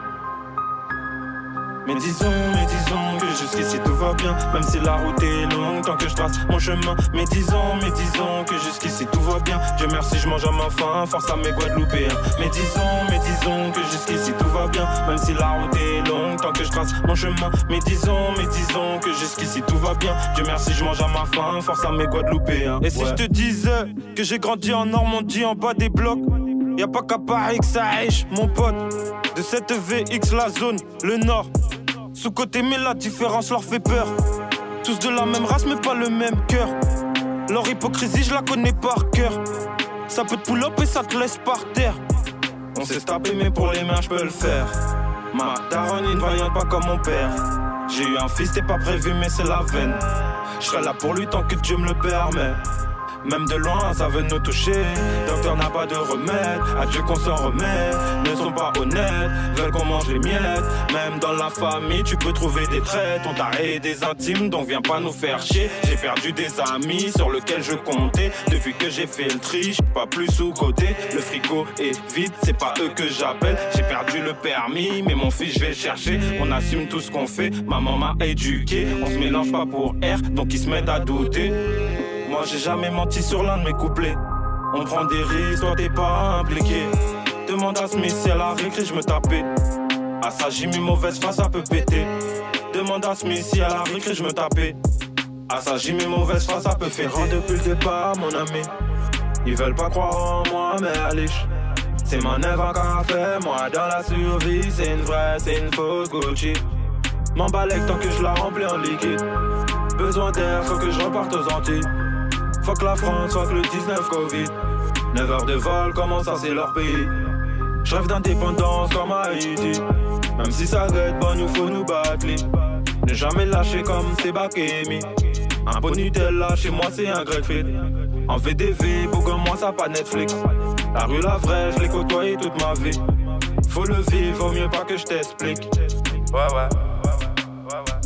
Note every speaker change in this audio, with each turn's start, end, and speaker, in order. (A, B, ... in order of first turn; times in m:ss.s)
0:01.8-0:31.5 A
0:32.1-0:34.1 A
0:34.8-0:36.7 A
0:37.5-0:39.4 A
0:40.1-0:42.0 A
0:42.7-0:44.8 A
0:45.3-0:50.0 A
0:50.6-0:52.6 A
0:53.2-1:21.6 A
1:22.2-1:24.2 A
1:24.7-1:26.9 A
1:27.4-1:29.5 A
1:30.2-1:32.1 A
1:32.7-1:34.8 A
1:35.5-1:38.7 A
1:39.4-1:41.5 A
1:42.0-1:46.6 A
1:47.4-1:49.2 A
1:49.9-1:51.9 A
1:52.6-1:54.5 A
1:55.1-1:57.2 A
1:57.8-1:59.8 A
2:00.4-2:02.5 A
2:03.0-2:05.1 A
2:05.6-2:10.4 A
2:10.9-2:13.0 A
2:13.7-2:15.7 A
2:16.3-2:17.1 A